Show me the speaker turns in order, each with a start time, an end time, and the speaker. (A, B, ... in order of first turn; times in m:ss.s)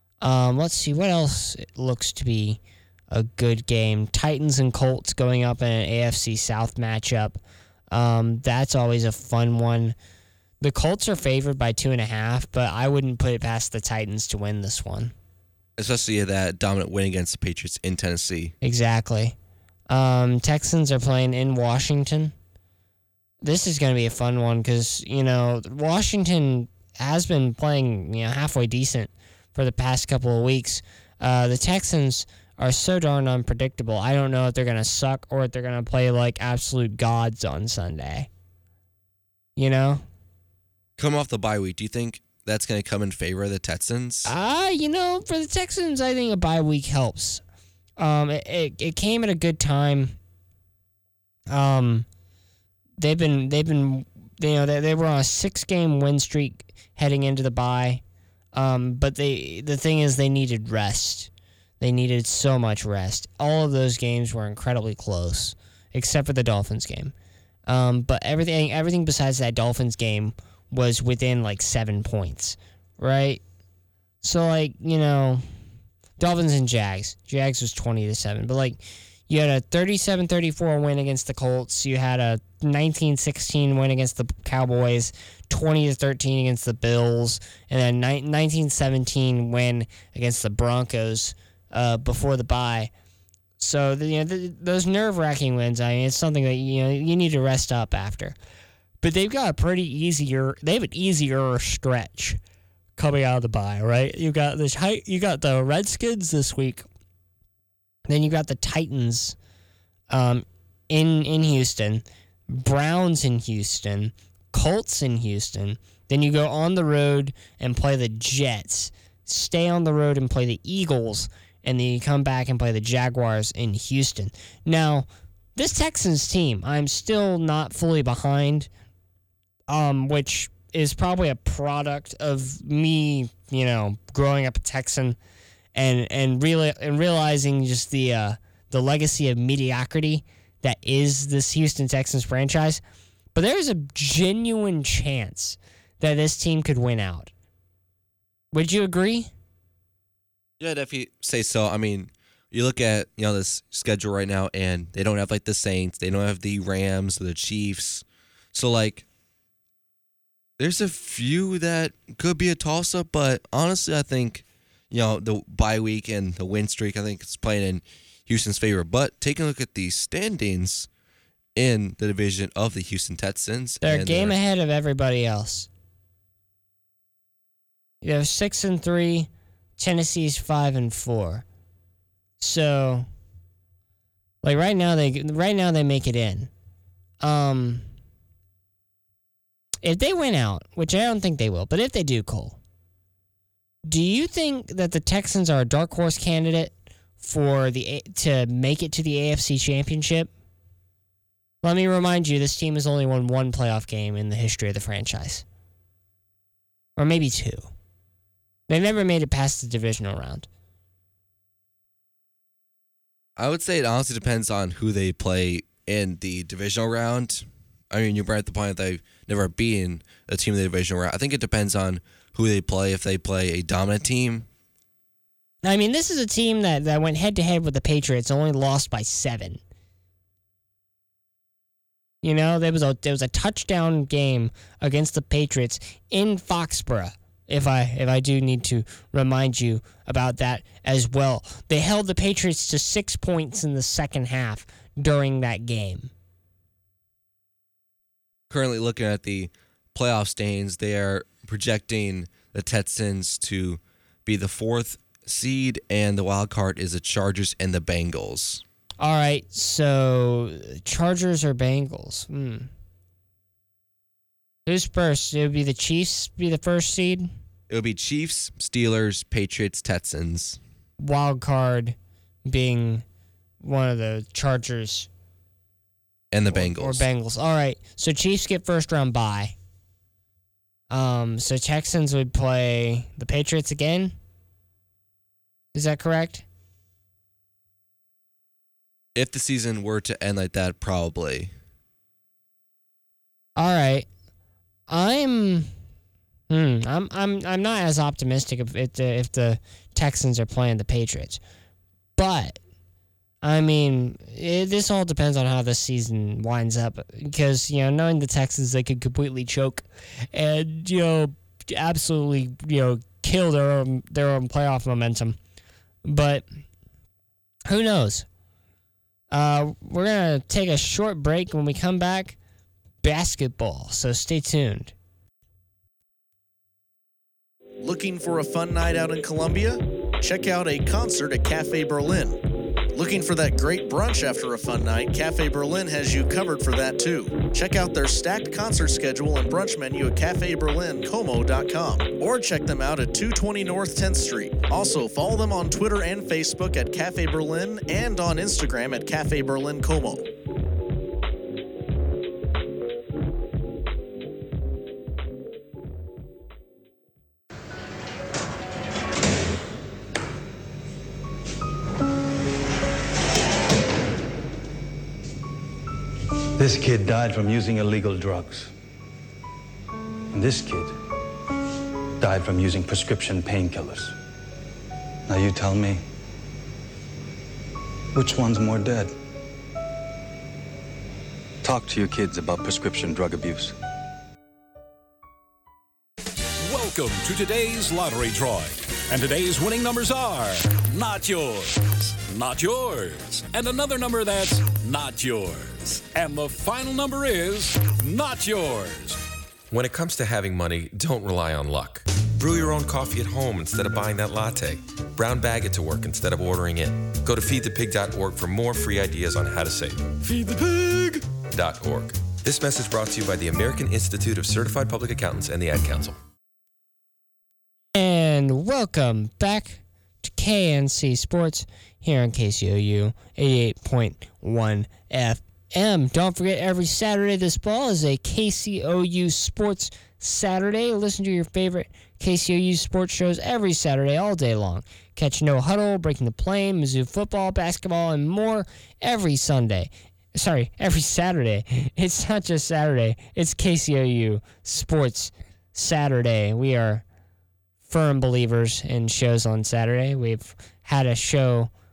0:00.2-0:02.6 A
0:03.1-0:07.4 A
0:07.9-0:09.9 A
0:10.6-0:15.1 A
0:15.8-0:18.5 B
0:18.6-0:19.4 A
0:19.9-0:22.3 A
0:23.4-0:38.3 A
0:39.6-0:40.0 A
0:41.0-0:44.3 B
0:44.2-0:47.4 A
0:48.0-0:50.2 A
0:51.5-0:52.0 A
0:53.0-0:58.0 A
0:58.5-1:01.3 A
1:01.8-1:07.1 A
1:07.7-1:13.4 A
1:14.2-1:15.4 A
1:16.2-1:32.9 A
1:33.6-1:38.4 A
1:39.0-1:42.4 A
1:43.0-1:46.8 A
1:48.1-1:49.4 A
1:50.1-2:08.7 A
2:09.7-2:15.2 A
2:15.7-2:22.8 A
2:23.3-2:27.3 A
2:28.5-2:29.3 A
2:30.6-2:39.0 B
2:40.6-2:50.9 B
2:51.5-2:54.4 B
2:53.8-2:55.7 A
2:58.0-3:01.4 A
3:02.4-3:03.1 A
3:04.4-3:06.5 A
3:07.2-3:07.8 A
3:09.8-3:12.6 A
3:13.8-3:20.3 A
3:21.6-3:25.4 A
3:27.0-3:27.7 A
3:28.7-3:30.5 A
3:33.4-3:44.5 B
3:45.6-3:49.6 A
3:52.2-4:06.1 A
4:08.5-4:18.6 B
4:19.0-4:22.7 A
4:24.6-4:27.3 A
4:27.7-4:30.6 B
4:31.0-4:33.0 A
4:33.6-4:35.1 A
4:36.3-4:37.1 B
4:36.5-4:39.5 A
4:40.9-4:44.2 A
4:45.7-4:46.4 A
4:49.1-4:51.5 B
4:53.6-4:54.1 A
4:54.9-4:55.7 A
4:56.5-5:01.4 A
5:02.2-5:02.6 A
5:03.4-5:15.4 A
5:16.0-5:16.4 A
5:17.7-5:18.2 A
5:19.3-5:22.4 A
5:23.0-5:24.9 A
5:27.8-5:32.4 C
5:32.9-5:50.3 C
6:06.5-6:08.7 D
6:10.3-6:10.9 D
6:12.2-6:14.1 D
6:15.3-6:16.0 D
6:18.1-6:19.1 D
6:21.6-6:23.7 D
6:26.6-6:39.2 E
6:39.7-6:56.2 F
6:57.9-7:27.0 A
7:27.9-7:31.7 A